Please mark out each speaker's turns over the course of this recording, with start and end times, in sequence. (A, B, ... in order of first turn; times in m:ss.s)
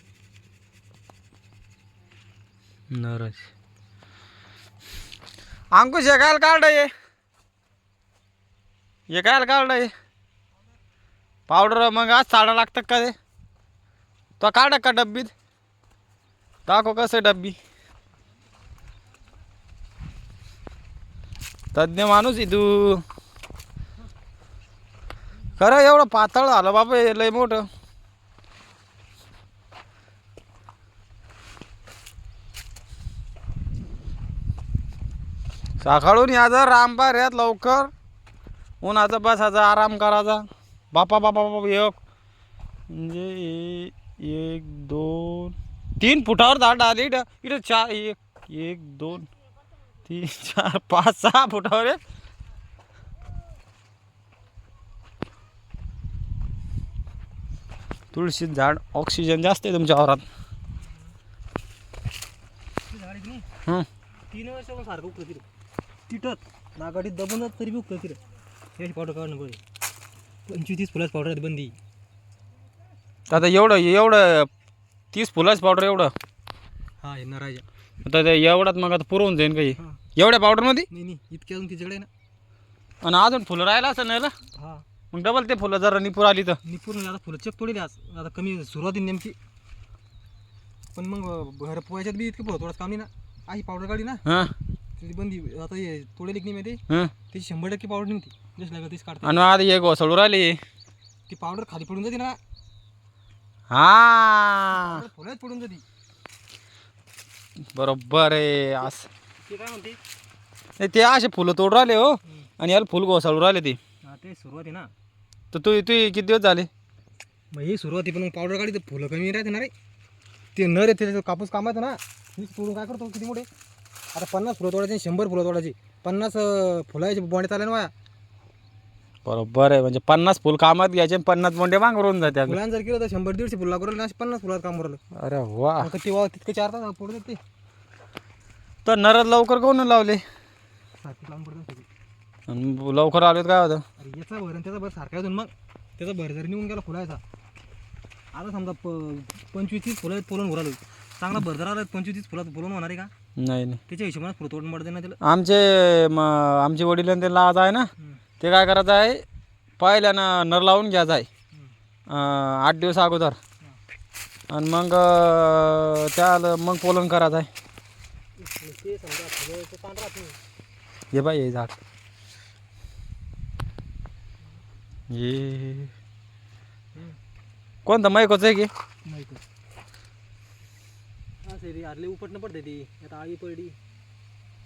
0:02.9-0:03.5 A
0:05.7-0:06.9 A
0:09.1-0:09.9 A
0:11.5-0:13.2 A
0:14.4-0:15.3 A
0:16.6-0:17.6 A
0:21.7-0:23.0 A
0:25.6-0:27.7 A
0:35.8-0:37.9 A
0:38.8-0:42.0 A
0:42.9-0:49.3 A
0:50.0-0:52.0 A
0:58.1-1:00.2 A
1:02.9-1:03.5 B
1:04.3-1:05.4 B
1:06.1-1:08.2 B
1:08.8-1:09.6 B
1:10.5-1:11.8 B
1:13.3-1:14.5 A
1:15.1-1:16.1 A
1:17.0-1:17.6 B
1:18.0-1:20.9 A
1:20.9-1:22.1 B
1:23.0-1:24.3 A
1:24.5-1:24.8 B
1:25.1-1:26.6 A
1:26.6-1:29.4 B
1:30.9-1:34.2 B
1:34.2-1:34.5 A
1:35.0-1:39.5 B
1:39.2-1:40.6 A
1:41.3-1:42.4 B
1:43.7-1:45.0 A
1:44.7-1:45.8 B
1:47.7-1:49.1 A
1:49.4-1:50.0 B
1:50.8-1:53.8 A
1:54.0-1:54.9 B
1:55.5-1:56.7 A
1:57.5-1:59.7 B
2:00.5-2:03.5 B
2:04.1-2:07.9 B
2:09.2-2:12.6 A
2:12.3-2:15.0 B
2:15.1-2:15.9 A
2:15.8-2:17.4 B
2:18.8-2:20.2 A
2:21.0-2:21.8 B
2:22.5-2:23.8 A
2:24.0-2:27.2 B
2:28.3-2:33.1 B
2:33.4-2:33.8 A
2:33.9-2:35.2 B
2:35.2-2:37.9 A
2:38.4-2:39.2 A
2:39.8-2:41.3 A
2:42.1-2:43.4 A
2:44.5-2:47.5 A
2:48.4-2:50.4 B
2:51.1-2:51.7 A
2:55.1-2:55.9 A
2:57.8-2:58.7 A
2:59.0-2:59.4 B
3:01.4-3:03.8 B